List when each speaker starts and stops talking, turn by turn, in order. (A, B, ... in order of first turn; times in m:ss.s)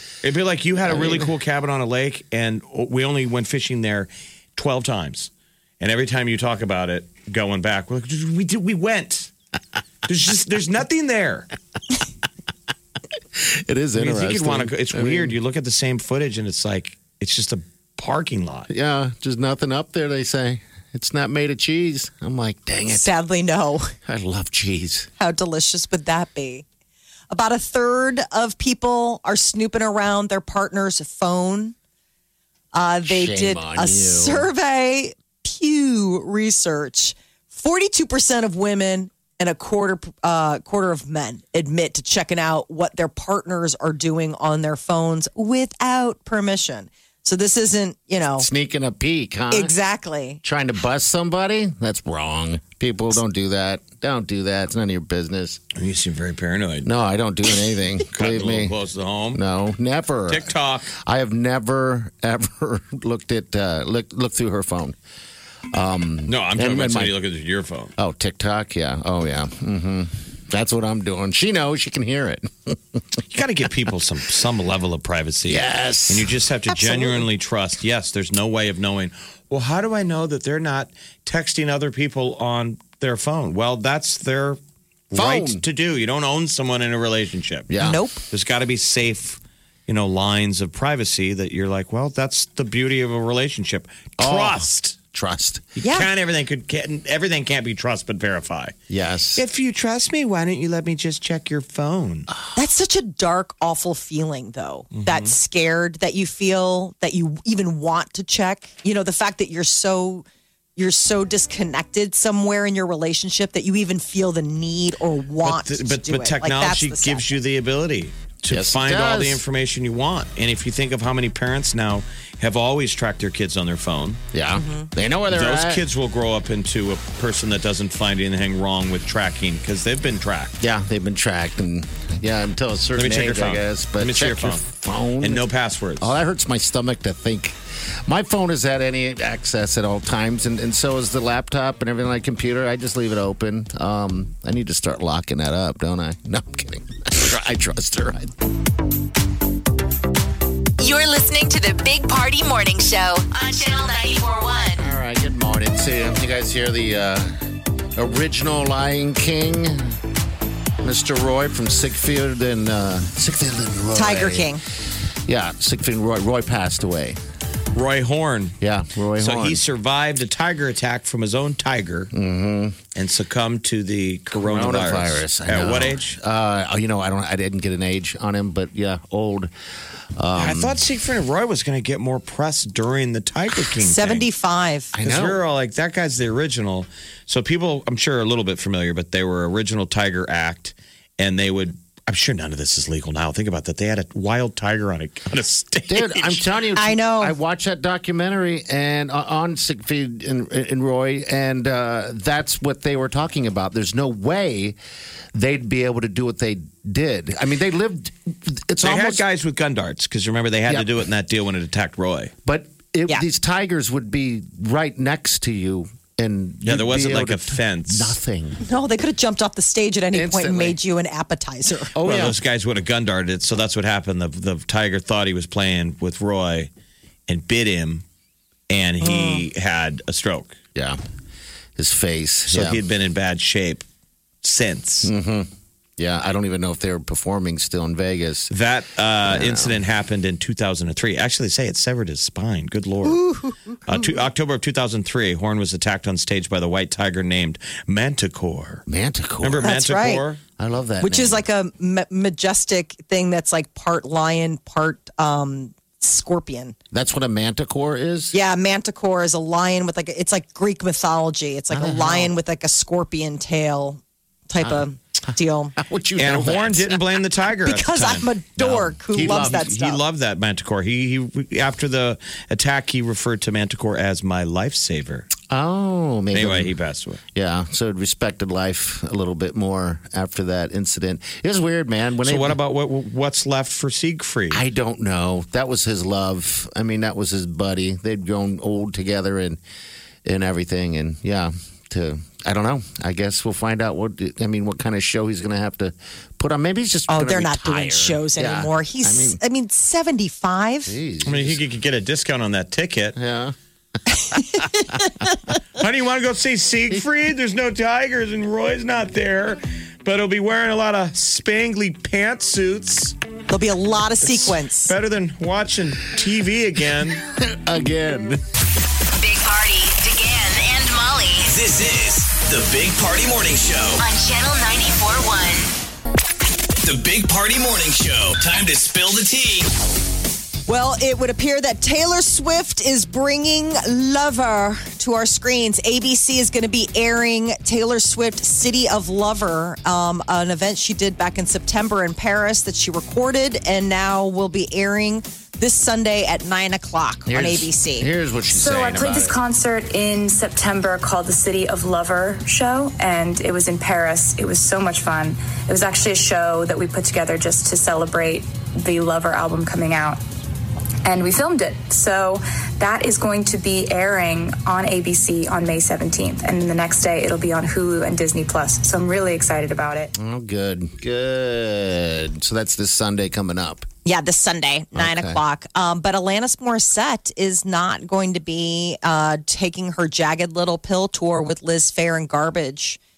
0:00.2-0:09.3 A
0:00.8-0:01.3 B
0:10.1-0:11.5 A
0:13.4-0:15.4 B
0:14.0-0:18.7 A
0:18.7-0:23.1 B
0:22.9-0:23.9 C
0:24.1-0:25.1 B
0:25.2-0:26.6 C
0:27.3-0:31.8 C
0:32.7-0:48.5 C
0:33.0-0:34.5 B
0:48.4-0:49.7 B
0:49.5-0:50.4 C
0:50.4-0:55.6 B
0:55.8-0:56.9 A
0:56.8-0:58.8 B
0:58.1-0:59.4 A
0:59.3-1:05.0 B
1:00.3-1:00.9 A
1:05.7-1:07.1 B
1:06.3-1:07.9 A
1:08.0-1:13.2 B
1:13.3-1:24.6 A
1:15.5-1:16.3 B
1:16.7-1:17.2 C
1:25.1-1:27.7 A
1:25.1-1:25.6 B
1:27.7-1:28.0 B
1:27.8-1:28.2 C
1:28.3-1:35.0 A
1:34.2-1:35.7 B
1:35.8-1:38.8 A
1:35.8-1:36.1 C
1:38.9-1:39.4 B
1:39.4-1:42.3 A
1:42.6-1:50.3 C
1:44.9-1:45.3 A
1:50.8-1:57.3 C
1:55.4-2:04.2 A
1:58.5-1:59.4 B
2:04.3-2:05.8 B
2:04.5-2:04.9 C
2:05.3-2:10.6 A
2:10.6-2:15.5 B
2:13.0-2:14.6 A
2:15.2-2:16.1 A
2:16.0-2:28.3 B
2:30.8-2:34.8 D
2:34.8-2:37.4 B
2:38.0-2:40.0 B
2:40.8-2:44.6 B
2:44.0-2:44.6 C
2:45.3-2:47.2 B
2:47.7-2:48.6 A
2:48.6-2:49.6 B
2:49.2-2:52.1 A
2:52.1-2:52.8 B
2:53.0-2:56.2 A
2:54.3-2:59.5 B
3:00.2-3:00.8 B
3:00.4-3:04.3 A
3:03.8-3:04.9 C
3:04.9-3:05.4 B
3:05.0-3:16.4 A
3:15.9-3:24.8 B
3:16.8-3:17.4 C
3:25.3-3:29.2 B
3:28.8-3:32.3 A
3:32.4-3:38.6 B
3:36.6-3:38.2 A
3:38.6-3:41.9 C
3:40.1-3:40.8 B
3:41.9-3:42.4 B
3:42.0-3:46.7 A
3:47.3-3:48.0 A
3:48.7-3:50.6 A
3:49.0-3:49.4 C
3:51.8-3:52.8 B
3:52.5-3:53.8 A
3:54.4-3:55.1 A
3:55.0-3:58.5 B
3:58.5-4:03.2 A
3:59.3-3:59.8 B
4:03.0-4:03.8 C
4:03.9-4:08.8 A
4:08.9-4:09.8 B
4:09.4-4:10.4 A
4:09.6-4:10.2 C
4:10.6-4:11.5 B
4:11.0-4:16.8 C
4:16.9-4:18.4 B
4:18.3-4:25.7 C
4:21.7-4:22.3 B
4:24.6-4:27.0 B
4:26.2-4:35.3 A
4:27.6-4:30.0 C
4:29.1-4:29.8 B
4:35.5-4:36.7 B
4:36.3-4:37.2 A
4:37.3-4:42.6 B
4:42.2-4:44.6 A
4:44.5-4:49.6 B
4:50.2-4:59.4 B
4:57.1-5:00.9 C
5:00.9-5:01.6 B
5:01.2-5:03.2 A
5:03.2-5:03.6 B
5:04.4-5:04.7 B
5:04.6-5:05.1 C
5:05.8-5:13.2 A
5:13.5-5:14.9 C
5:14.2-5:17.2 A
5:17.2-5:18.4 B
5:19.1-5:21.5 D
5:21.5-5:24.0 E
5:24.0-5:25.7 D
5:26.8-5:29.7 E
5:30.7-5:48.1 C
5:47.3-5:49.4 B
5:48.5-6:00.2 F
6:01.0-6:10.1 F
6:10.2-6:13.9 B
6:14.0-6:23.0 C
6:15.0-6:15.4 B